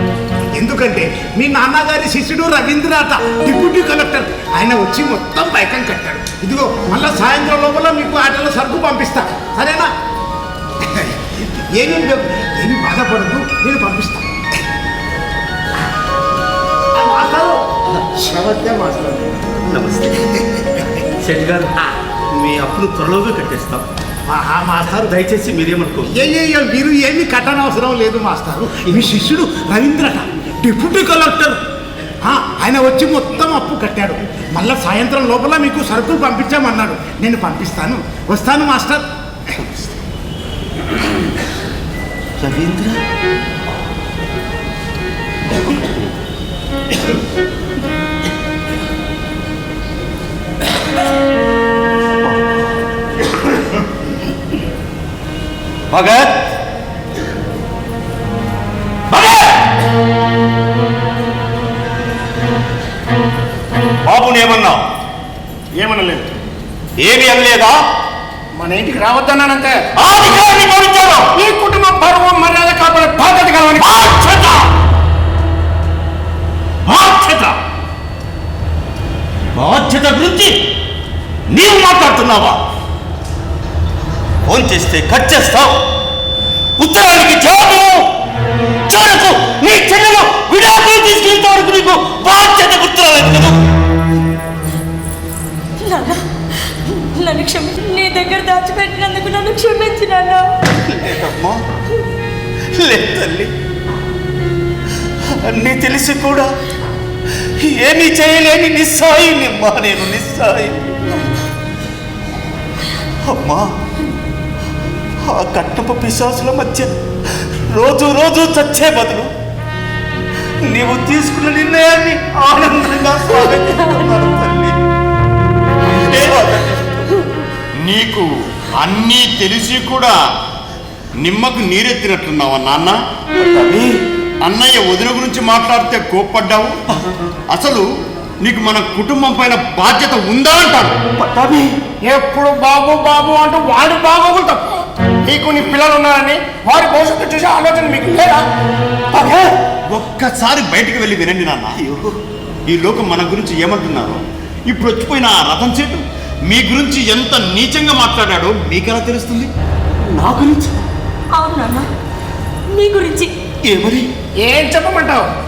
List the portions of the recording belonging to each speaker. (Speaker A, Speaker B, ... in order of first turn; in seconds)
Speaker A: 0.6-9.9, 10.9-14.2, 16.9-17.6, 18.2-19.5, 20.5-20.9, 24.3-25.1, 26.1-31.6, 32.2-39.0
Speaker B: 19.6-20.4, 21.2-21.7, 22.3-23.8, 25.0-26.1, 42.4-43.0, 45.5-46.1, 55.9-56.3, 59.1-59.6, 64.0-64.8, 67.0-67.8, 70.0-71.3, 73.8-74.6, 76.9-77.5, 79.5-80.6, 81.5-82.6, 84.4-85.8, 86.8-88.1, 88.9-93.6, 100.8-101.6, 102.8-103.5, 105.2-106.5, 107.6-111.2, 113.2-113.7, 115.2-119.3, 120.6-124.8, 125.8-127.2, 133.3-133.9, 141.2-141.8, 149.1-149.6, 151.8-152.2, 160.0-160.9, 163.7-164.1
Speaker C: 65.7-66.3, 68.5-69.7, 71.3-74.1, 142.0-148.4, 164.4-165.3
Speaker D: 95.8-96.2, 96.8-100.5, 161.3-161.9, 162.7-163.3
Speaker E: 127.8-130.2, 131.2-133.0, 134.4-136.8, 137.5-137.9, 138.4-140.9, 149.9-151.8, 152.7-159.5